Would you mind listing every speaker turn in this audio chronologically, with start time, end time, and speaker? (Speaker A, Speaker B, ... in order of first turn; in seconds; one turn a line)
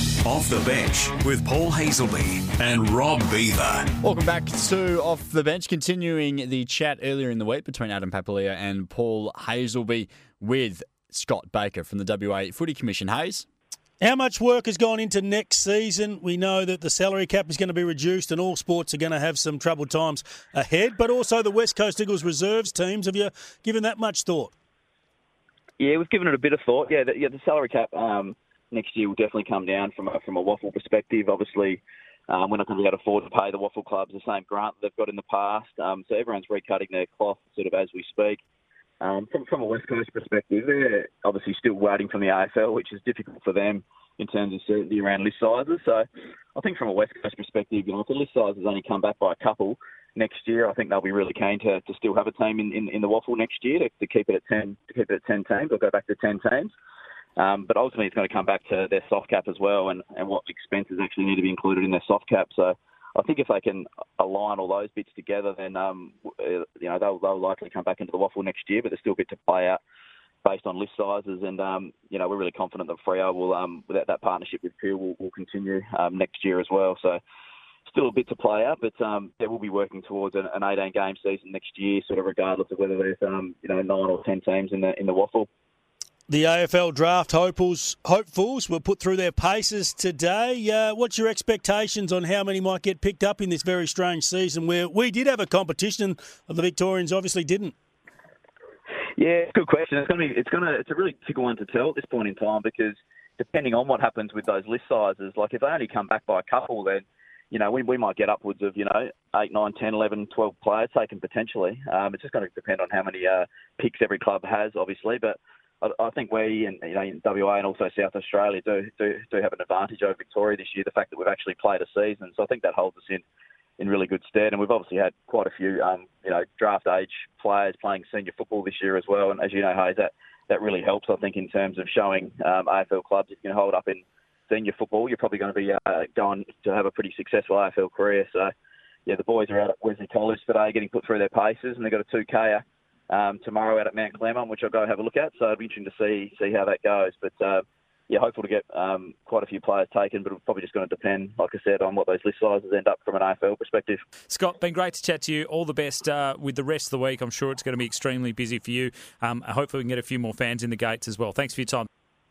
Speaker A: 0.3-3.8
Speaker B: 4.0-13.4
Speaker C: 14.0-24.5
Speaker D: 25.8-38.4
Speaker D: 39.0-56.7
Speaker D: 57.4-69.8
Speaker D: 70.4-77.2
Speaker D: 77.9-85.5
Speaker C: 86.3-97.7
Speaker D: 99.2-123.2
Speaker D: 123.8-138.5
Speaker D: 139.1-154.0
Speaker E: 154.3-161.9